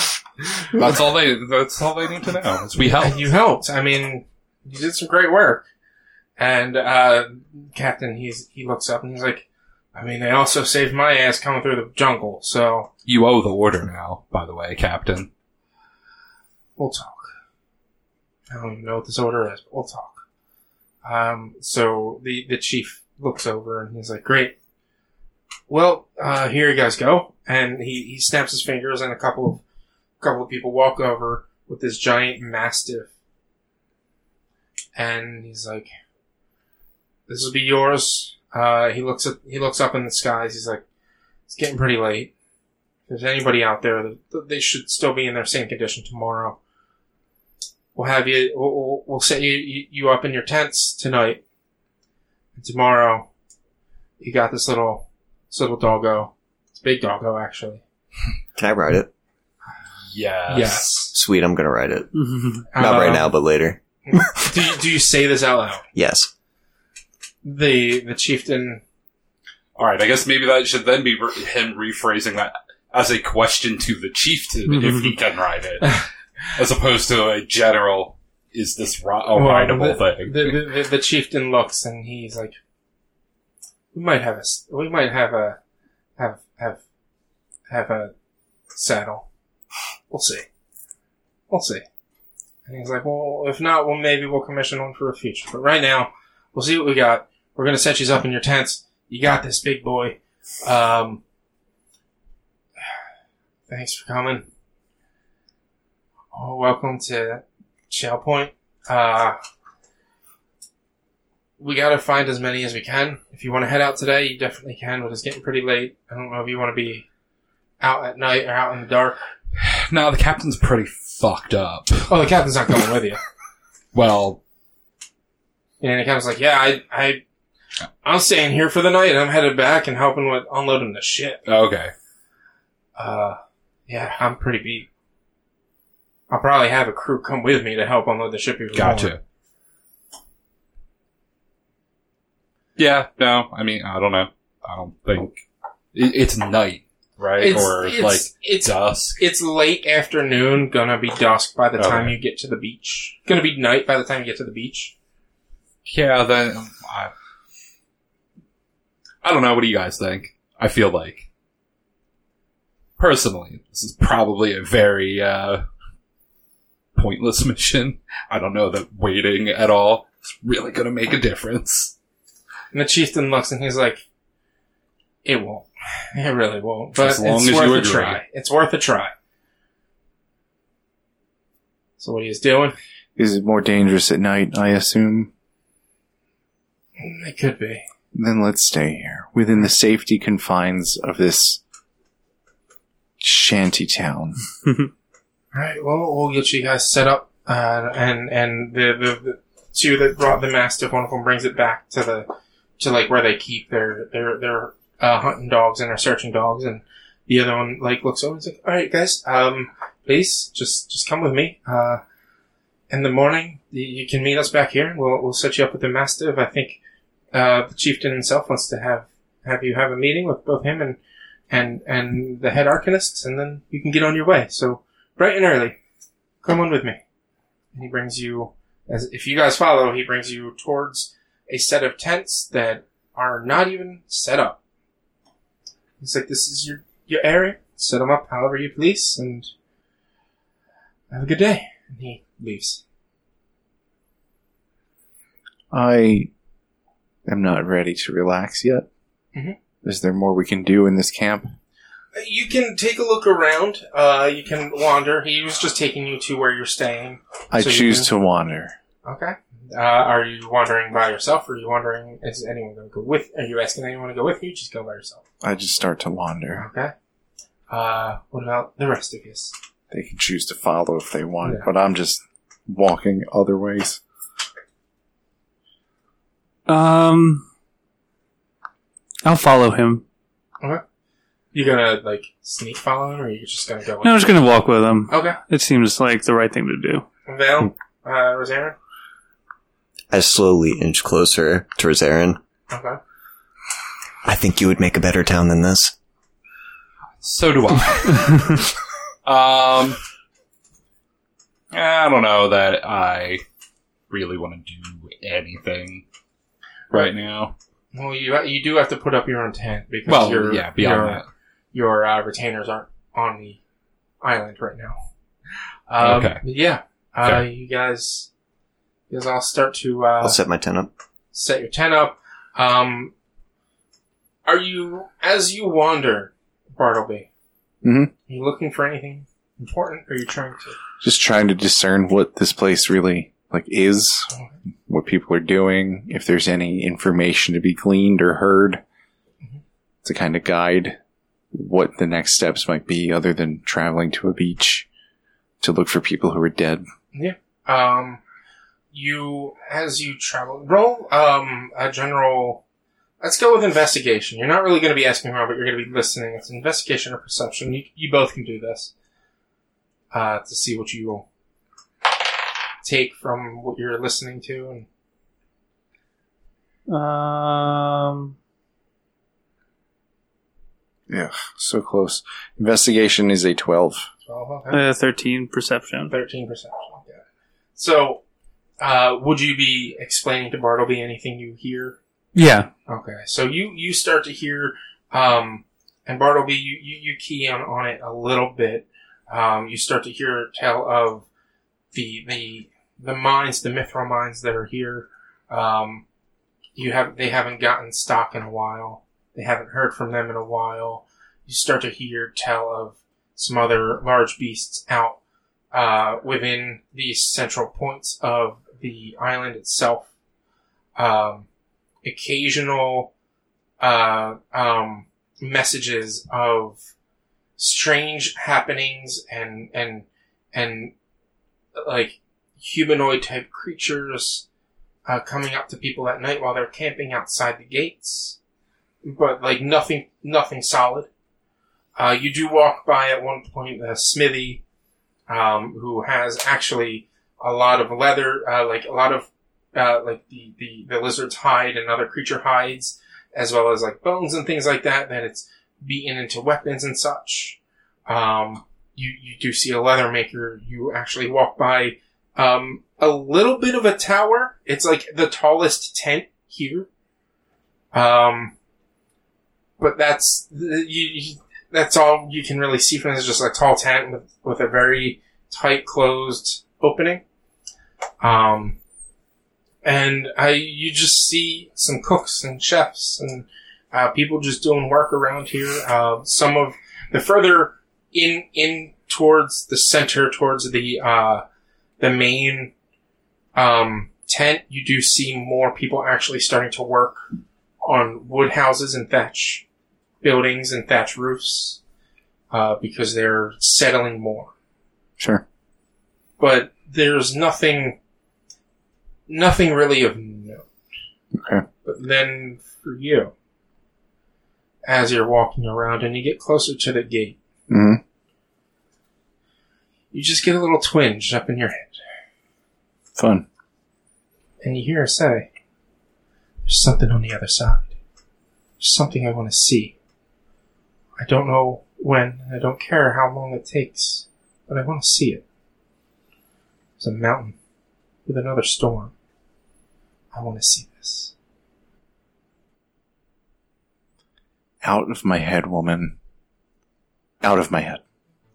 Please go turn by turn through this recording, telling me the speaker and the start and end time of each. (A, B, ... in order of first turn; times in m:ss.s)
0:00.7-0:03.3 A
0:02.9-0:05.6 B
0:06.4-0:12.9 B
0:13.0-0:15.3 A
0:16.8-0:17.3 B
0:18.5-0:20.2 B
0:21.0-0:24.5 B
0:25.7-0:29.6 B
0:30.2-0:33.1 B
0:34.9-0:35.9 B
0:37.3-0:40.8 B
0:41.5-0:42.3 B
0:43.1-0:46.6 B
0:47.9-0:51.4 B
0:52.6-0:53.3 B
0:54.2-0:57.8 B
0:58.6-0:59.1 C
1:00.1-1:01.0 A
1:00.5-1:01.1 B
1:01.1-1:02.1 C
1:02.1-1:02.6 D
1:02.7-1:03.3 B
1:02.7-1:04.4 C
1:04.1-1:05.8 B
1:05.9-1:06.3 C
1:07.4-1:08.8 B
1:09.8-1:20.6 A
1:14.7-1:15.1 D
1:19.3-1:22.6 B
1:23.9-1:25.6 B
1:26.2-1:26.8 B
1:27.7-1:28.1 B
1:28.7-1:29.3 B
1:30.1-1:30.4 B
1:31.5-1:31.8 B
1:32.6-1:41.2 B
1:43.7-1:44.5 B
1:46.3-1:49.4 B
1:51.6-1:57.0 B
1:57.8-1:59.2 B
1:59.6-2:02.1 A
2:02.1-2:03.2 B
2:03.9-2:04.4 A
2:05.8-2:07.2 B
2:08.0-2:11.4 B
2:11.4-2:11.9 A
2:13.0-2:14.9 B
2:16.3-2:19.2 B
2:18.7-2:19.2 A
2:22.8-2:29.2 A
2:27.4-2:34.9 B
2:31.8-2:32.2 A
2:35.8-2:37.1 A
2:39.2-2:41.2 A
2:43.0-2:45.6 A
2:46.9-2:51.9 A
2:52.7-2:54.0 B
2:55.2-2:59.1 B
2:57.0-2:58.2 A
3:02.0-3:02.7 B
3:03.2-3:05.3 E
3:07.0-3:07.8 B
3:08.1-3:11.6 E
3:13.2-3:14.4 E
3:15.5-3:32.0 B
3:32.9-3:36.8 B
3:37.3-3:41.0 B
3:41.5-3:45.8 B
3:46.4-3:47.0 B
3:47.7-3:54.6 B
3:56.0-3:59.5 B
4:01.1-4:02.8 B
4:05.7-4:06.3 E
4:07.2-4:08.9 E
4:09.8-4:11.5 E
4:12.1-4:18.1 B
4:17.5-4:18.7 E
4:19.0-4:25.2 B
4:25.4-4:26.6 E
4:26.6-4:26.9 B
4:27.7-4:29.5 B
4:29.9-4:34.0 E
4:36.7-4:37.4 D
4:39.2-4:40.0 D
4:41.5-4:44.4 B
4:44.0-4:47.0 D
4:45.1-4:45.4 B
4:47.3-4:48.8 B
4:50.1-4:52.4 C
4:52.7-4:53.0 B
4:54.2-4:55.9 C
4:57.2-4:58.7 A
4:58.1-4:58.6 D
4:59.2-5:00.0 A
5:01.7-5:03.4 A
5:04.1-5:06.0 A
5:06.9-5:07.5 A
5:07.9-5:11.2 B
5:10.1-5:11.2 A
5:11.7-5:13.6 B
5:14.2-5:15.0 B
5:15.9-5:18.3 B
5:16.0-5:16.4 A
5:19.1-5:20.4 B
5:20.2-5:20.9 C
5:21.3-5:23.1 B
5:24.4-5:27.3 B
5:27.8-5:28.1 E
5:28.3-5:30.8 B
5:31.0-5:34.3 E
5:34.9-5:38.8 E
5:40.0-5:41.0 E
5:41.5-5:44.9 E
5:45.6-5:46.8 E
5:47.1-5:48.2 B
5:48.9-5:52.6 B
5:53.2-5:58.9 B
6:00.1-6:01.3 B
6:02.8-6:04.9 B
6:06.9-6:08.3 D
6:11.1-6:14.1 E
6:14.2-6:14.8 B
6:14.7-6:16.1 D
6:16.1-6:17.2 B
6:17.8-6:18.2 B
6:18.8-6:22.0 B
6:22.3-6:22.7 D
6:22.9-6:31.3 B
6:31.9-6:36.0 B
6:36.8-6:45.2 B
6:45.7-6:50.1 B
6:51.0-6:51.5 B
6:52.0-6:53.1 B
6:53.8-6:56.8 B
6:57.6-7:00.9 B
7:01.8-7:04.4 B
7:05.0-7:08.4 B
7:09.0-7:11.1 B
7:12.0-7:14.6 B
7:15.3-7:36.9 B
7:37.9-7:38.5 B
7:39.8-7:47.2 B
7:48.2-7:48.8 B
7:49.8-8:01.4 B
8:02.0-8:02.7 B
8:03.5-8:07.2 B
8:07.8-8:09.6 B
8:10.2-8:11.8 B
8:12.5-8:14.5 B
8:15.2-8:15.4 E
8:16.4-8:18.0 B
8:19.3-8:20.6 B
8:21.3-8:21.6 E
8:21.8-8:23.3 B
8:24.8-8:27.4 B
8:27.7-8:28.0 E
8:30.1-8:32.0 B
8:33.2-8:33.4 E
8:34.6-8:35.5 B
8:36.6-8:37.9 B
8:38.8-8:39.9 B
8:41.2-8:45.4 B
8:47.0-8:47.6 B
8:48.2-8:49.1 B
8:50.3-8:51.3 B
8:54.8-8:56.2 E
8:57.4-8:58.0 E